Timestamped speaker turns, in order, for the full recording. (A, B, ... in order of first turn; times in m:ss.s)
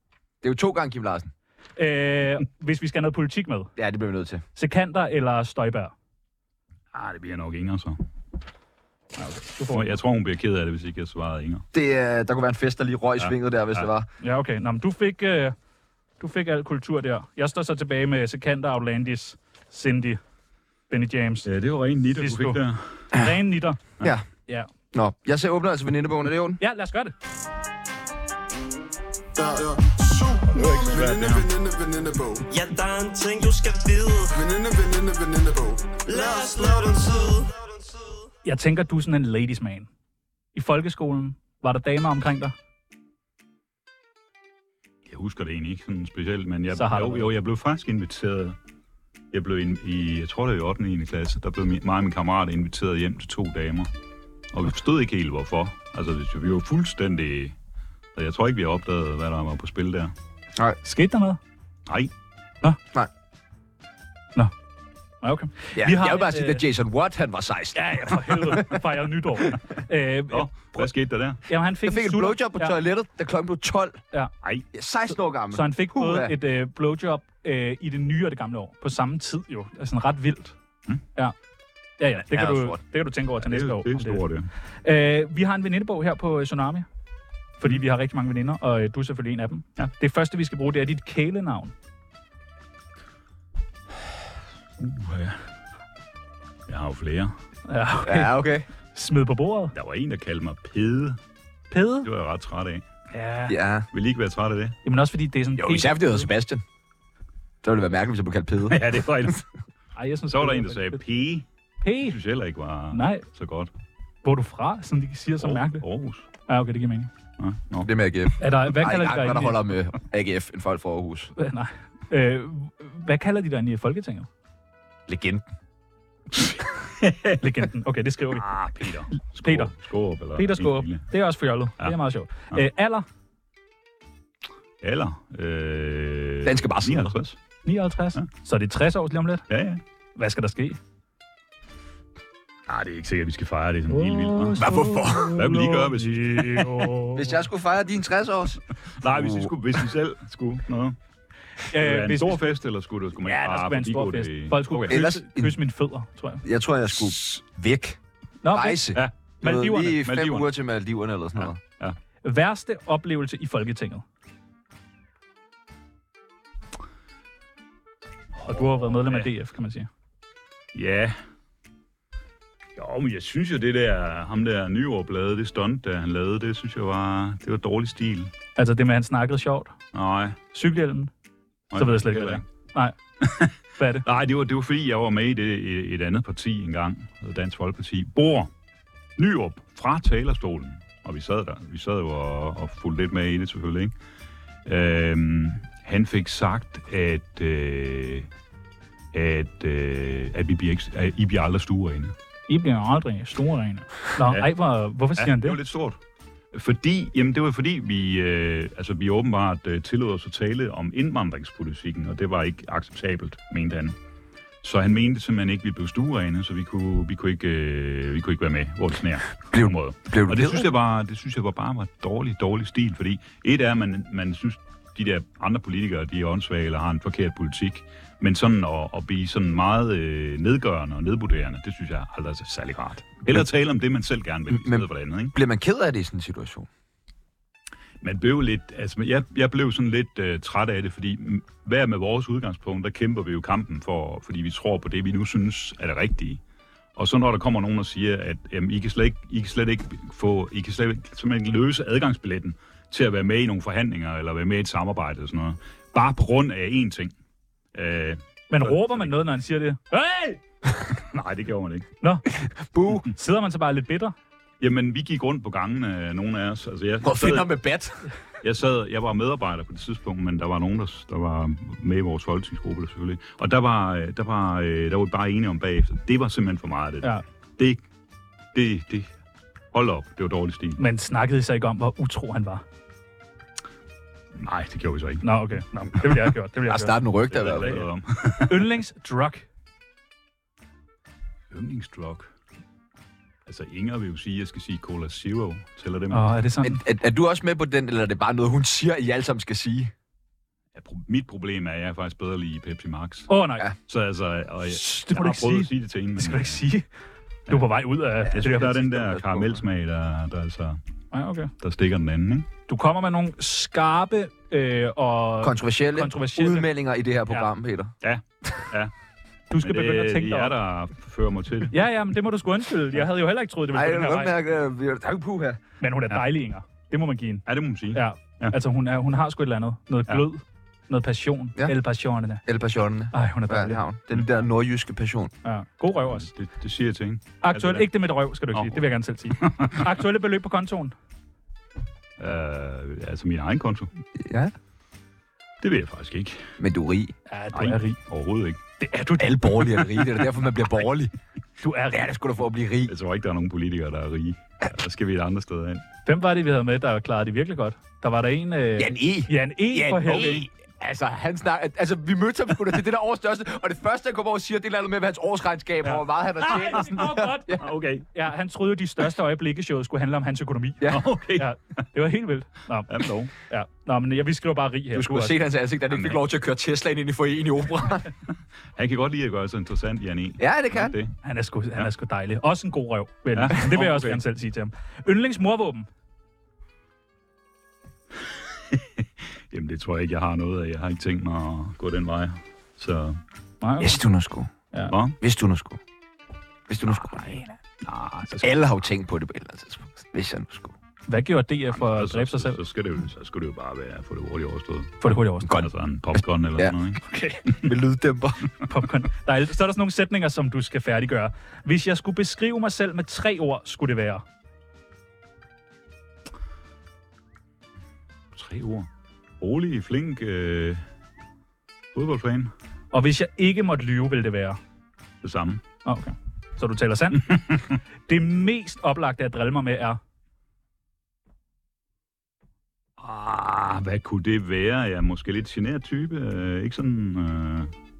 0:00.4-0:01.3 A
0:01.8-0:03.7 B
0:03.8-0:04.4 A
0:04.6-0:05.9 B
0:06.9-0:08.0 C
0:09.2-0:09.9 B
0:09.7-0:11.6 C
0:11.7-0:14.1 A
0:13.2-0:13.9 C
0:14.2-0:15.5 B
0:16.2-0:20.2 B
0:20.9-0:21.5 B
0:21.4-0:23.1 C
0:22.2-0:22.6 B
0:23.1-0:23.8 B
0:24.0-0:24.2 A
0:24.9-0:26.6 A
0:26.6-0:27.1 B
0:29.3-0:32.4 D
0:30.5-0:31.5 C
0:32.5-0:34.4 E
0:34.3-0:36.9 D
0:36.0-0:38.0 E
0:38.4-0:39.9 B
0:40.5-0:42.5 B
0:45.1-0:48.6 C
0:46.7-0:47.3 B
0:49.3-0:53.9 C
0:54.5-0:57.5 C
0:58.1-1:00.1 C
1:00.8-1:01.4 B
1:05.2-1:06.6 B
1:05.7-1:08.8 A
1:07.7-1:10.8 B
1:10.3-1:11.4 C
1:11.5-1:12.7 B
1:11.8-1:14.0 A
1:14.7-1:16.3 A
1:15.5-1:20.6 B
1:22.0-1:24.2 B
1:22.3-1:22.8 A
1:23.4-1:24.5 C
1:24.8-1:26.8 B
1:27.6-1:31.7 B
1:34.8-1:35.4 C
1:36.7-1:37.3 C
1:37.7-1:38.3 B
1:38.0-1:38.7 A
1:38.9-1:39.7 B
1:39.7-1:41.2 C
1:41.7-1:42.1 B
1:42.0-1:42.8 C
1:43.1-1:43.5 B
1:43.5-1:43.9 A
1:43.9-1:44.8 C
1:44.8-1:46.3 B
1:45.6-1:46.6 A
1:47.6-1:49.3 A
1:48.7-1:49.4 C
1:50.0-1:51.0 B
1:50.3-1:51.5 C
1:51.8-1:52.2 B
1:52.0-1:53.7 C
1:52.9-1:53.2 B
1:54.2-1:55.8 B
1:55.4-1:56.2 C
1:56.5-1:57.1 B
1:57.4-1:57.9 C
1:57.8-2:01.3 A
1:58.4-1:59.7 B
2:01.4-2:04.3 B
2:05.1-2:05.4 A
2:06.4-2:07.4 C
2:07.4-2:08.4 B
2:08.3-2:11.1 C
2:09.4-2:09.7 B
2:10.4-2:13.0 B
2:14.8-2:17.4 C
2:16.4-2:17.1 A
2:17.6-2:19.4 B
2:19.5-2:19.8 C
2:20.2-2:20.8 B
2:22.7-2:24.6 C
2:23.9-2:27.4 B
2:24.6-2:25.4 A
2:25.3-2:26.9 C
2:27.1-2:29.5 A
2:29.0-2:31.0 C
2:31.7-2:32.5 B
2:31.7-2:35.0 C
2:33.2-2:36.4 B
2:34.9-2:35.6 A
2:36.4-2:38.0 A
2:38.4-2:40.0 B
2:38.5-2:41.6 A
2:39.8-2:40.5 C
2:41.4-2:42.0 C
2:42.2-2:44.0 B
2:48.4-2:49.9 B
2:48.9-2:49.3 C
2:50.7-2:51.2 C
2:52.8-2:58.3 C
2:58.6-2:59.7 B
2:59.9-3:00.4 C
3:00.5-3:01.1 B
3:01.7-3:02.4 C
3:01.7-3:02.9 B
3:03.2-3:08.5 C
3:03.8-3:04.0 B
3:09.2-3:13.9 C
3:14.6-3:18.3 C
3:19.1-3:22.1 C
3:22.5-3:25.6 B
3:24.2-3:24.5 C
3:25.2-3:26.0 C
3:26.5-3:34.0 C
3:34.6-3:55.3 C
3:39.5-3:40.7 A
3:54.5-3:56.7 A
3:58.0-4:06.4 C
4:07.0-4:17.1 C
4:17.7-4:19.2 C
4:18.5-4:20.4 B
4:20.9-4:21.9 C
4:22.0-4:22.3 B
4:22.4-4:23.1 A
4:23.0-4:24.1 B
4:24.6-4:27.5 C
4:27.0-4:28.0 A
4:28.4-4:37.8 C
4:38.5-4:39.1 C
4:39.7-4:40.8 C
4:40.8-4:42.6 B
4:44.4-4:46.3 C
4:45.2-4:47.0 B
4:46.7-4:47.7 A
4:47.3-4:48.7 C
4:47.6-4:47.8 B
4:48.5-4:49.4 B
4:51.5-4:52.3 C
4:53.5-4:56.3 C
4:56.1-4:56.8 B
4:56.6-4:59.9 A
5:00.7-5:03.3 C
5:03.3-5:03.7 B
5:03.8-5:06.6 C
5:04.6-5:06.8 B
5:07.5-5:08.9 B
5:08.2-5:10.8 C
5:08.2-5:09.6 A
5:11.1-5:11.5 B
5:11.6-5:12.5 C
5:12.7-5:16.7 B
5:15.4-5:17.9 A
5:18.0-5:18.9 C
5:19.5-5:20.5 B
5:19.6-5:21.7 C
5:21.7-5:24.3 B
5:23.7-5:25.6 A
5:25.8-5:32.4 B
5:27.4-5:28.5 C
5:32.4-5:35.3 A
5:33.1-5:33.8 B
5:35.4-5:36.3 B
5:36.1-5:37.9 C
5:37.4-5:40.9 B
5:38.5-5:38.8 C
5:39.4-5:39.8 C
5:42.2-5:43.9 C
5:44.2-5:44.5 A
5:45.6-5:46.5 C
5:46.6-5:47.1 A
5:47.3-5:48.0 B
5:47.5-5:48.6 C
5:48.8-5:50.0 B
5:49.2-5:51.1 A
5:51.6-5:52.1 B
5:51.9-5:52.9 A
5:52.9-5:55.8 C
5:56.0-6:00.4 B
5:58.8-6:07.6 A
6:00.0-6:00.5 C
6:05.8-6:07.6 B
6:06.7-6:07.0 C
6:07.6-6:08.1 C
6:08.1-6:15.4 B
6:10.9-6:11.8 C
6:12.9-6:13.3 C
6:14.9-6:18.1 A
6:15.9-6:16.2 C
6:18.8-6:21.1 C
6:20.4-6:20.9 A
6:21.2-6:25.9 B
6:23.3-6:24.2 C
6:28.7-6:33.2 C
6:33.6-6:34.0 B
6:33.8-6:34.5 A
6:34.9-6:35.2 C
6:35.2-6:35.8 A
6:36.7-6:37.4 A
6:37.1-6:38.6 C
6:38.4-6:40.7 A
6:41.1-6:42.6 B
6:41.7-6:47.7 C
6:45.0-6:45.5 B
6:47.0-6:47.4 B
6:47.6-6:48.4 A
6:48.7-6:54.2 B
6:58.3-6:58.9 C
6:59.4-7:00.8 C
7:01.9-7:02.5 C
7:02.9-7:04.6 B
7:05.2-7:05.6 C
7:05.8-7:07.6 B
7:07.2-7:07.8 C
7:08.1-7:10.0 B
7:13.0-7:17.7 C